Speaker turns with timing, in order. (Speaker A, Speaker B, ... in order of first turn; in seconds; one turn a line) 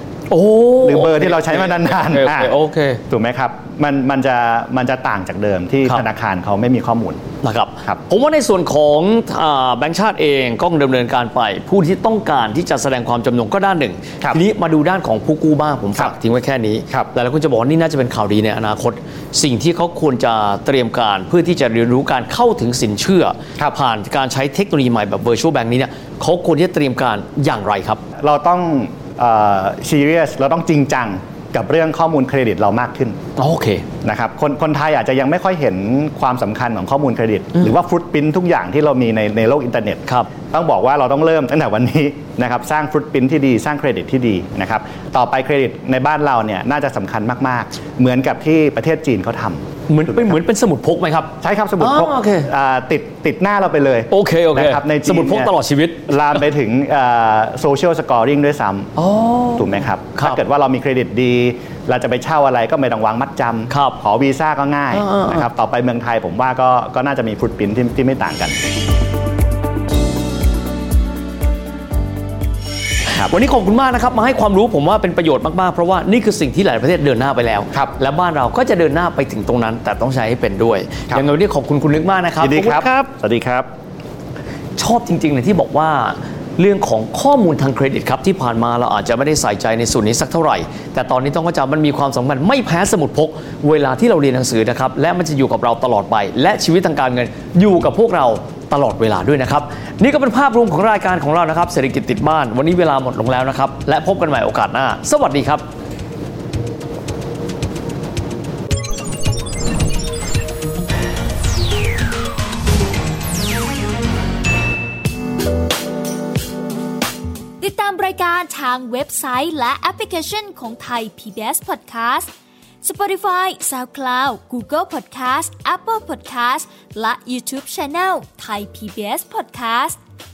Speaker A: 0.3-3.0
Speaker B: 0.8-2.5
Speaker B: 3.1-7.2
Speaker A: 7.4-28.0
Speaker B: 28.2-33.2
Speaker A: 33.4-33.9
Speaker B: 34.0-50.4
Speaker A: 49.9-52.5
Speaker B: 51.4-55.5
Speaker A: 54.1-56.4
Speaker B: 56.1-58.9
Speaker A: 59.0-60.4
Speaker B: 59.6-68.6
Speaker A: 63.7-64.0
Speaker A: 64.9-65.5
Speaker A: 73.1-83.1
Speaker B: 82.4-83.7
Speaker A: 84.8-105.7
Speaker C: 117.6-122.3
Speaker C: 122.8-130.0